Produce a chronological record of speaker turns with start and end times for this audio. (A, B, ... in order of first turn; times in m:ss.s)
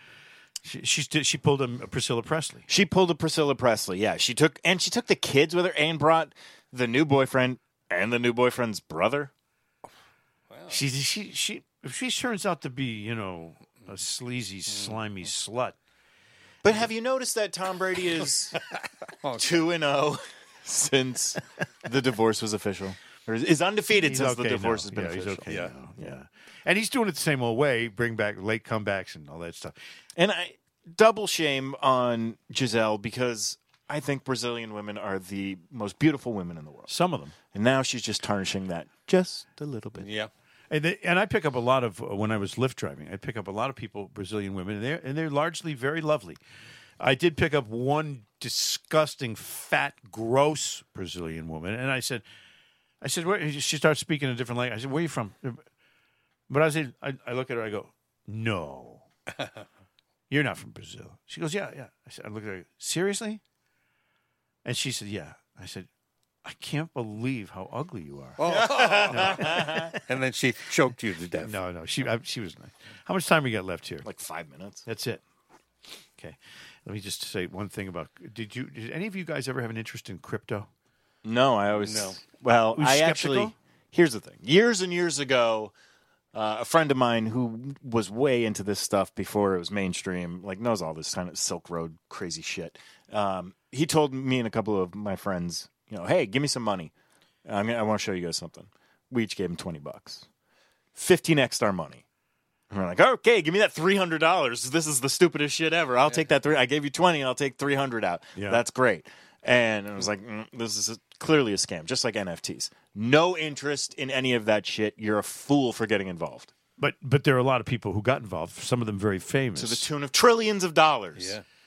0:00.6-0:02.7 A
0:02.7-0:09.3 B
0:10.5-0:10.8 C
0:10.7-0:15.8 A
0:16.6-0:18.6 B
0:18.6-0:19.7 C
0:19.4-0:26.2 B
0:24.0-0:29.8 A
0:25.5-0:25.7 C
0:30.2-0:36.9 B
0:36.9-0:37.4 A
0:37.5-0:40.1 B
0:40.0-0:40.3 C
0:40.7-0:46.4 A
0:47.0-0:52.2 A
0:53.0-0:55.6 A
0:56.5-0:59.0 A
1:00.3-1:03.4 A
1:04.6-1:05.9 A
1:06.4-1:08.4 A
1:08.4-1:11.6 C
1:08.5-1:09.9 B
1:09.1-1:10.0 A
1:11.4-1:14.1 A
1:14.0-1:14.8 B
1:14.9-1:15.2 A
1:16.2-1:20.7 A
1:21.2-1:25.7 B
1:21.8-1:22.2 C
1:22.7-1:23.5 A
1:26.3-1:36.9 B
1:37.5-1:40.3 B
1:41.0-1:42.0 B
1:42.7-1:56.5 B
1:48.4-1:48.6 A
1:56.8-1:59.9 A
1:59.6-2:01.4 B
2:01.2-2:01.4 C